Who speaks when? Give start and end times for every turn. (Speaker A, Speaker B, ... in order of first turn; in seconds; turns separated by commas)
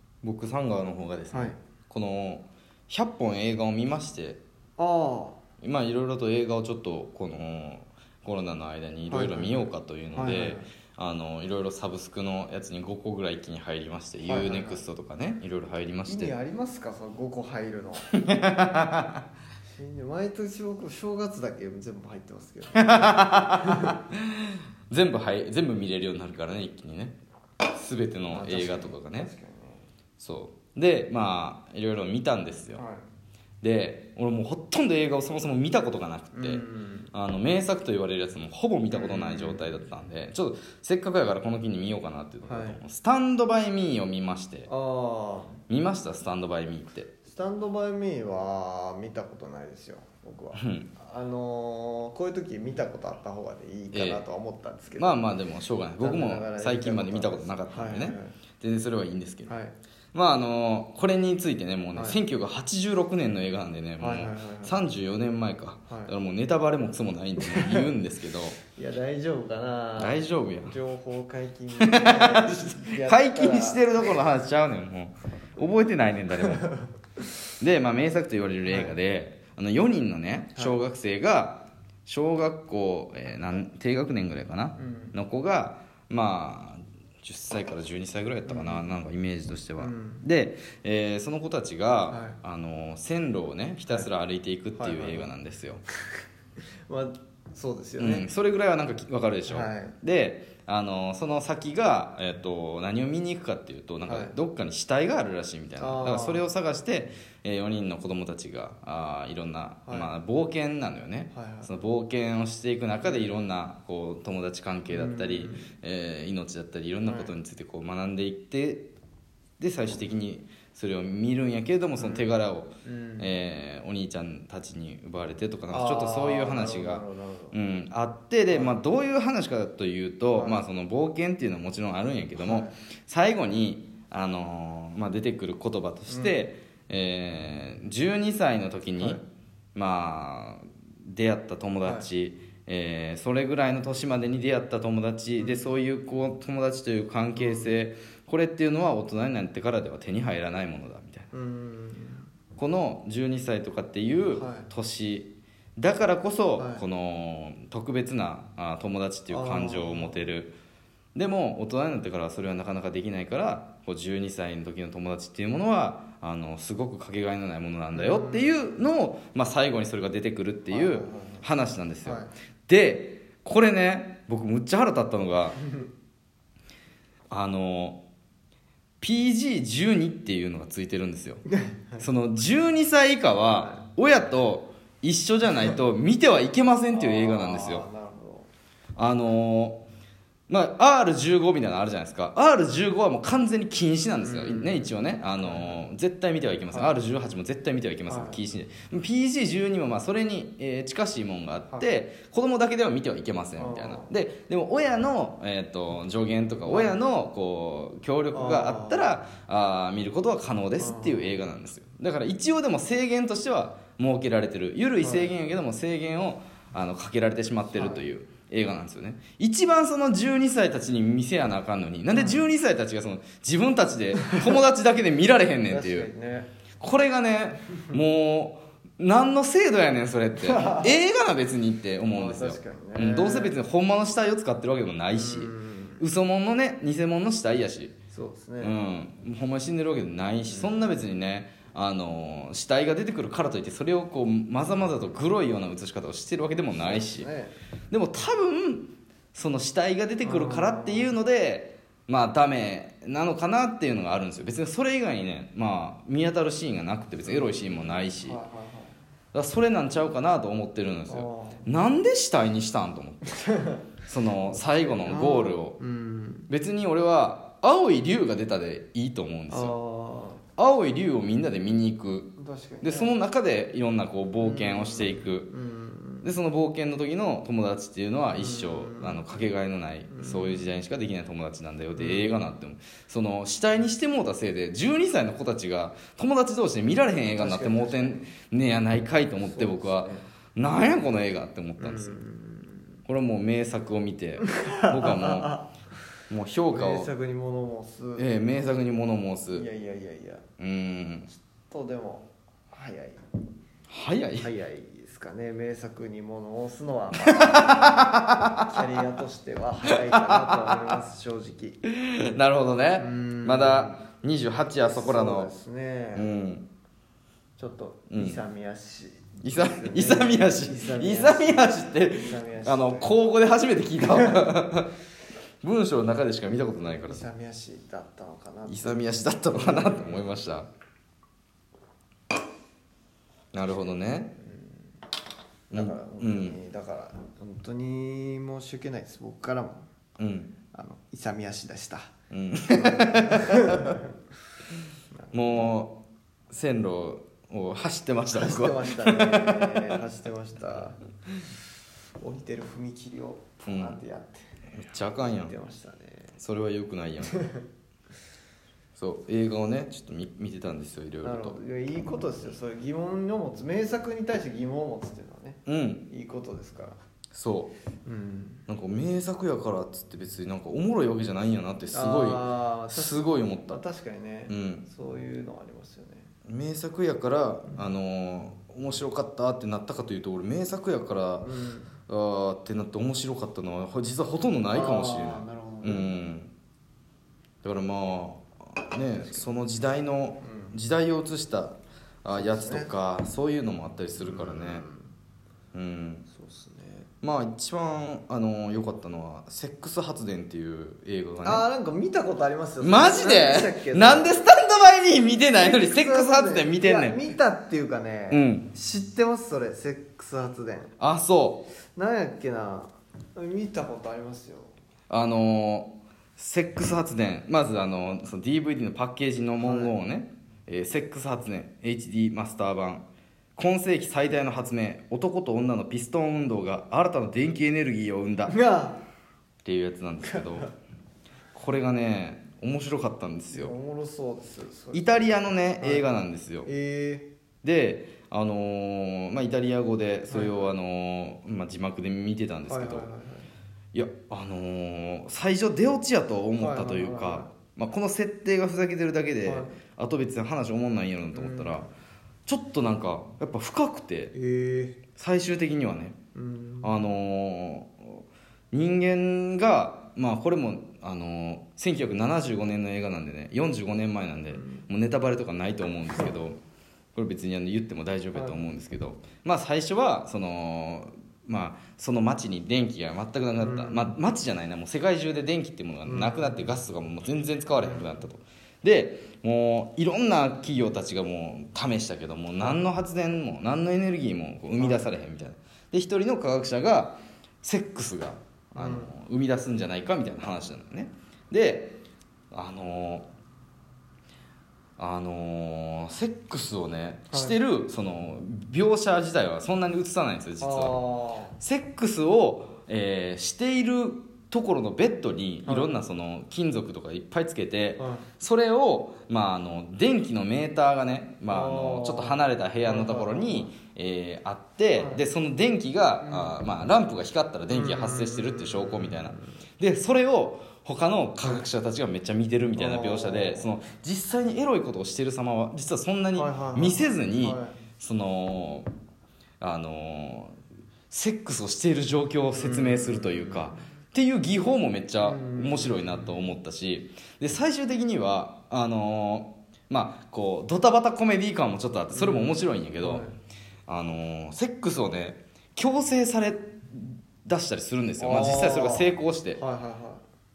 Speaker A: 0.2-4.4, Speaker B: 4.8-5.4, Speaker A: 5.6-16.3, Speaker B: 9.1-10.7, Speaker B: 14.3-14.8, Speaker B: 16.1-18.1, Speaker A: 18.2-19.2, Speaker B: 19.7-24.0, Speaker A: 22.7-27.2, Speaker A: 27.7-29.3, Speaker B: 28.3-29.8, Speaker A: 30.2-32.8, Speaker B: 32.8-33.0, Speaker A: 33.6-44.7, Speaker B: 36.3-37.1, Speaker B: 38.9-39.7, Speaker B: 42.4-42.8, Speaker B: 44.7-45.6, Speaker A: 45.7-47.1, Speaker B: 47.2-55.2, Speaker A: 50.6-50.9, Speaker A: 53.9-54.2, Speaker A: 55.0-59.5, Speaker B: 56.0-58.4, Speaker B: 59.5-59.8, Speaker A: 60.1-68.6, Speaker B: 62.0-62.2, Speaker B: 64.0-64.8, Speaker B: 67.4-67.8, Speaker B: 68.8-74.2, Speaker A: 70.0-70.8, Speaker A: 71.8-76.7, Speaker B: 76.4-76.9, Speaker A: 77.6-95.8, Speaker B: 78.7-79.0, Speaker B: 84.8-85.2, Speaker B: 88.5-88.9, Speaker B: 89.8-90.2, Speaker B: 92.1-92.4, Speaker B: 94.8-95.3, Speaker B: 96.9-98.3, Speaker A: 98.0-118.9, Speaker B: 99.5-100.0, Speaker B: 104.1-104.3, Speaker B: 105.8-106.5, Speaker B: 111.3-111.7, Speaker B: 114.9-115.7, Speaker B: 117.1-117.3, Speaker A: 119.6-139.2, Speaker B: 122.0-122.3, Speaker B: 122.8-123.3, Speaker B: 125.7-127.5, Speaker B: 128.5-128.8, Speaker B: 130.3-130.6, Speaker B: 132.4-132.7, Speaker B: 136.1-136.4, Speaker B: 139.0-139.2, Speaker A: 139.8-151.3, Speaker B: 141.8-142.1, Speaker B: 145.4-145.7, Speaker B: 147.4-147.8, Speaker B: 151.3-152.3, Speaker A: 152.6-160.6, Speaker B: 154.3-154.7, Speaker B: 156.6-156.8, Speaker B: 159.3-160.2, Speaker A: 161.2-175.6, Speaker B: 167.9-168.5, Speaker B: 170.7-171.5, Speaker B: 172.0-172.3, Speaker A: 177.3-178.0, Speaker A: 179.0-181.4, Speaker B: 181.5-182.0, Speaker A: 182.0-187.9, Speaker B: 186.9-188.5, Speaker A: 189.0-189.8, Speaker A: 190.5-226.1, Speaker B: 194.2-195.8, Speaker B: 198.1-198.4, Speaker B: 203.6-204.1, Speaker B: 206.7-207.0, Speaker B: 208.3-209.1, Speaker B: 210.8-211.3, Speaker B: 215.0-215.3, Speaker B: 217.8-218.1, Speaker B: 222.1-222.5, Speaker B: 225.7-226.5, Speaker A: 226.8-237.9, Speaker B: 230.4-230.9, Speaker B: 232.1-233.6, Speaker B: 235.1-236.0, Speaker B: 238.1-238.8, Speaker A: 238.6-247.3, Speaker B: 240.5-240.9, Speaker B: 246.8-247.6, Speaker A: 247.9-258.4, Speaker B: 250.2-251.1, Speaker B: 257.2-259.0, Speaker A: 259.3-263.4, Speaker B: 261.1-261.7, Speaker B: 263.3-263.8, Speaker A: 264.0-265.8, Speaker B: 265.1-266.5, Speaker A: 266.5-269.8, Speaker B: 269.5-270.4, Speaker A: 270.6-275.5, Speaker B: 272.4-273.1, Speaker B: 274.4-276.3, Speaker A: 276.2-292.2, Speaker B: 278.3-279.4, Speaker B: 280.1-280.7, Speaker B: 282.0-282.4, Speaker B: 287.4-288.2, Speaker B: 289.4-290.2, Speaker B: 291.8-293.0, Speaker A: 293.1-295.6, Speaker B: 294.6-295.7, Speaker A: 296.3-297.1, Speaker B: 296.7-298.3, Speaker A: 298.2-299.6, Speaker B: 299.5-300.4, Speaker A: 300.6-301.3, Speaker B: 301.3-303.2, Speaker A: 303.9-304.5, Speaker B: 304.4-311.8, Speaker A: 307.3-309.0, Speaker A: 310.1-310.9, Speaker A: 311.9-315.5, Speaker B: 313.0-314.0, Speaker B: 314.9-316.3, Speaker A: 316.1-316.7, Speaker B: 317.6-323.1, Speaker A: 318.1-318.4, Speaker A: 319.4-324.9, Speaker B: 324.1-324.4, Speaker A: 325.6-327.2, Speaker B: 327.0-330.2, Speaker A: 328.7-330.7, Speaker A: 333.5-334.4, Speaker B: 334.4-335.0, Speaker B: 335.7-339.8, Speaker A: 335.7-336.6, Speaker A: 340.2-340.6, Speaker B: 340.7-342.1, Speaker A: 342.3-344.0, Speaker B: 342.7-344.1, Speaker B: 345.1-345.7, Speaker A: 345.3-349.9, Speaker B: 348.3-351.0, Speaker B: 352.2-354.5, Speaker A: 353.7-354.0, Speaker A: 354.7-355.5, Speaker B: 355.1-356.4, Speaker A: 356.4-357.4, Speaker B: 357.3-357.6, Speaker A: 359.0-361.6, Speaker B: 361.2-367.0, Speaker A: 365.7-366.1, Speaker A: 367.3-367.7, Speaker B: 368.1-368.6, Speaker A: 368.7-373.8, Speaker B: 371.9-376.3, Speaker A: 374.5-374.9, Speaker A: 376.5-381.5, Speaker B: 381.4-381.9, Speaker A: 382.1-386.5, Speaker B: 384.7-386.2, Speaker A: 387.6-394.9, Speaker B: 389.1-389.5, Speaker B: 390.4-390.8, Speaker B: 392.3-392.9, Speaker B: 394.2-395.1, Speaker A: 395.7-396.3, Speaker B: 396.3-397.1, Speaker A: 397.2-401.7, Speaker B: 401.4-404.4, Speaker A: 402.8-407.3, Speaker B: 405.6-410.9, Speaker A: 408.3-408.7, Speaker A: 411.0-411.7, Speaker B: 411.9-414.7, Speaker A: 415.1-423.0, Speaker B: 419.6-419.9, Speaker A: 423.6-428.6, Speaker B: 428.5-429.0, Speaker A: 429.6-430.7, Speaker B: 430.2-430.7, Speaker A: 431.5-433.7, Speaker B: 433.5-436.1, Speaker A: 434.9-436.7, Speaker B: 436.6-437.3, Speaker A: 437.6-443.1, Speaker B: 440.3-440.7, Speaker B: 442.7-443.5, Speaker A: 443.9-451.9, Speaker B: 446.6-447.5, Speaker B: 449.4-449.7, Speaker B: 451.3-451.9, Speaker A: 452.5-454.3, Speaker B: 454.3-455.0, Speaker A: 455.1-456.2, Speaker B: 456.4-457.0, Speaker A: 456.8-466.6, Speaker B: 464.5-464.9, Speaker A: 467.1-493.3, Speaker B: 468.3-468.6, Speaker B: 473.6-474.2, Speaker B: 476.1-476.7, Speaker B: 477.8-478.1, Speaker B: 484.8-485.1, Speaker B: 488.7-489.1, Speaker A: 495.0-501.0, Speaker B: 500.6-501.6, Speaker A: 501.6-528.9, Speaker B: 505.7-505.9, Speaker B: 508.0-508.3, Speaker B: 511.5-513.7, Speaker B: 515.0-515.2, Speaker B: 516.2-516.6, Speaker B: 517.7-519.4, Speaker B: 522.8-523.7, Speaker B: 526.4-527.8, Speaker A: 529.6-530.6, Speaker A: 531.1-543.2, Speaker B: 532.6-533.8, Speaker B: 535.2-536.4, Speaker B: 542.1-543.4, Speaker A: 543.9-549.6, Speaker B: 548.2-550.2